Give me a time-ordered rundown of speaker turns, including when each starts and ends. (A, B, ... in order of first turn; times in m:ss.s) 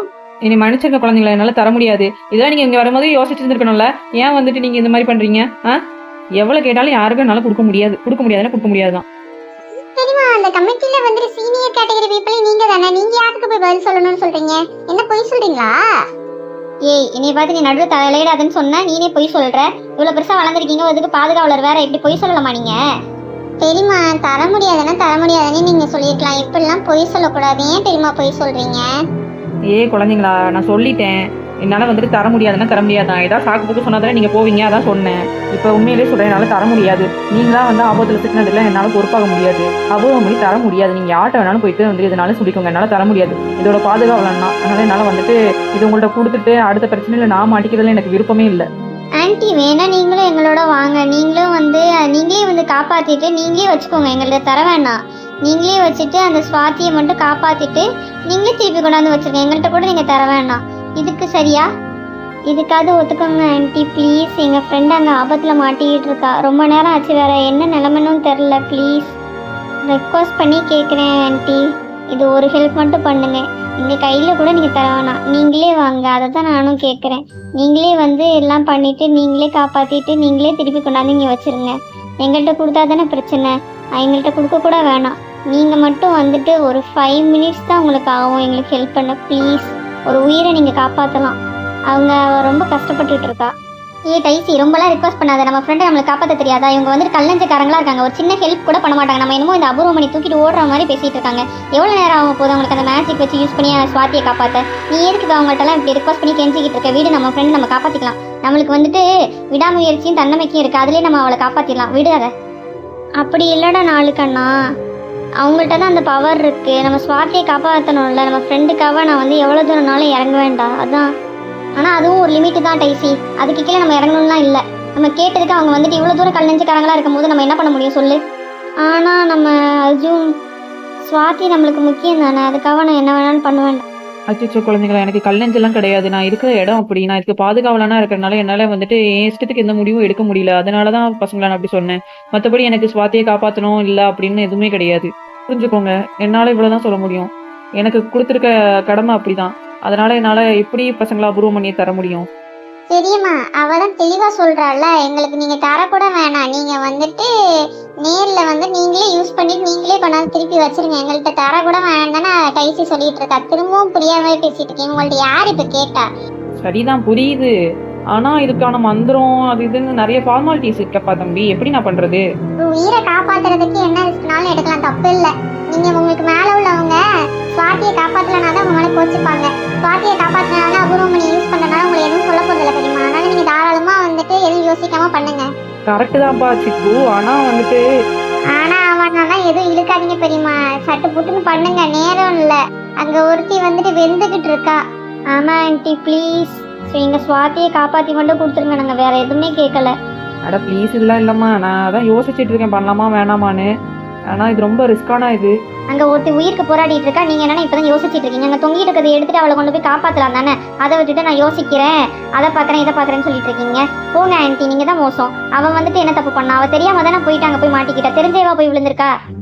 0:00.4-0:05.8 A
0:06.4-0:09.0 A
0:10.0-0:15.7 B
0:16.9-0:22.7 C
0:23.6-0:28.8 B
0:29.7-0:48.6 A
0:49.2-1:01.7 C
1:02.5-1:09.2 C
1:09.9-1:11.6 C
1:12.1-1:31.4 C
1:31.9-1:33.5 C
1:34.1-1:52.3 C
1:53.2-1:54.5 C
1:55.4-2:01.1 C
2:01.8-2:08.2 C
2:08.8-2:10.3 C
2:11.0-2:13.8 C
2:14.3-2:27.3 A
2:27.8-2:32.2 A
2:32.9-2:37.3 B
2:38.0-2:46.0 B
2:46.6-2:47.5 A
2:48.1-2:52.2 A
2:52.6-2:57.0 B
2:57.6-3:05.5 B
3:05.9-3:07.8 A
3:08.6-3:14.8 B
3:15.3-3:19.9 C
3:20.5-3:23.7 A
3:24.3-3:25.5 A
3:25.9-3:39.1 C